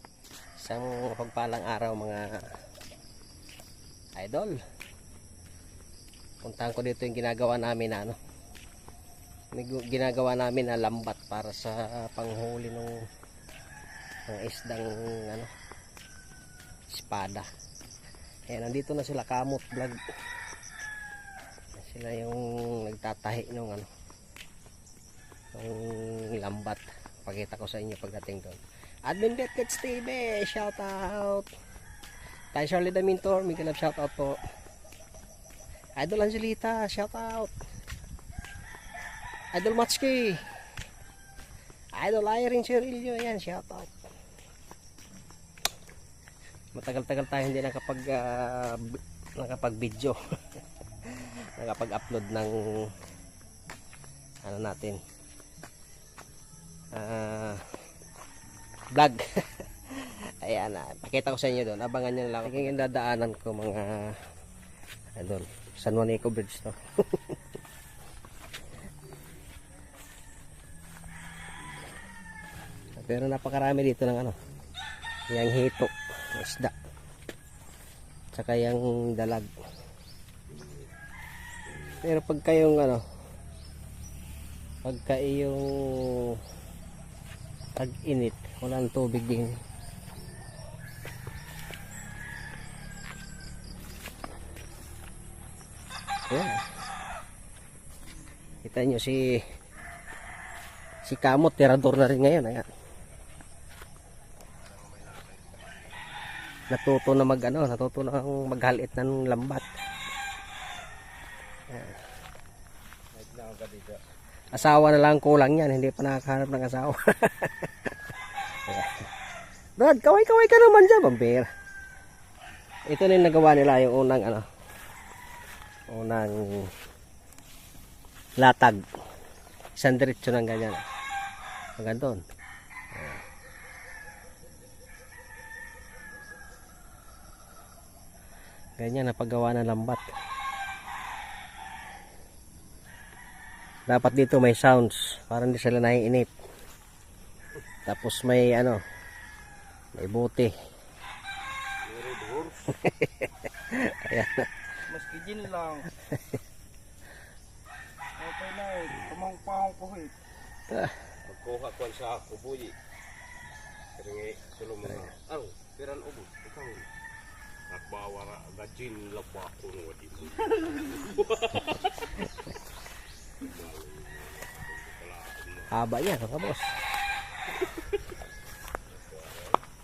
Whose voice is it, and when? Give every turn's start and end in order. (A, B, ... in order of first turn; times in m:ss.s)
0:00.6-0:02.4 A
0:04.2-0:04.6 A
0:06.4-0:08.2 A
0:09.5-0:13.0 A
0:14.3-0:15.5 A
0:16.9-0:17.5 A
0:18.5-0:20.0 A
0:21.8-0:23.9 A
0:25.5-0:31.5 A
0:32.5-0:34.4 A
0:36.0-0:37.5 A
0:39.5-0:40.4 A
0:42.0-0:43.9 A
0:46.7-0:50.2 A
0:51.0-0:52.9 A
0:54.4-0:55.0 A
0:56.9-0:57.6 A
0:58.9-1:04.2 A
1:05.2-1:07.4 A
1:12.9-1:14.4 A
1:15.3-1:16.7 A
1:18.3-1:19.5 A
1:22.0-1:23.0 A
1:24.8-1:26.4 A
1:27.8-1:29.6 A
1:36.3-1:36.6 A
1:38.6-1:39.4 A
1:41.0-1:42.7 A
1:44.6-1:46.0 B
1:46.7-1:49.6 A
1:51.7-1:52.0 A
1:53.1-1:54.0 B
1:54.5-1:57.9 A
1:58.6-1:59.1 A
1:59.8-2:01.5 A
2:02.9-2:04.4 A
2:05.9-2:06.7 A
2:08.4-2:08.8 A
2:09.8-2:10.8 A
2:11.8-2:12.2 A
2:12.9-2:13.2 A
2:18.8-2:20.0 A
2:23.9-2:26.3 A
2:27.8-2:28.8 A
2:29.9-2:30.5 A
2:31.8-2:32.7 B
2:32.8-2:34.5 A
2:34.9-2:35.9 C
2:38.2-2:40.2 C
2:40.7-2:41.0 A
2:41.2-2:42.8 B
2:43.9-2:46.9 B
2:47.7-2:52.3 B
2:53.4-2:55.7 B
2:55.7-2:56.9 A
2:58.9-2:59.6 B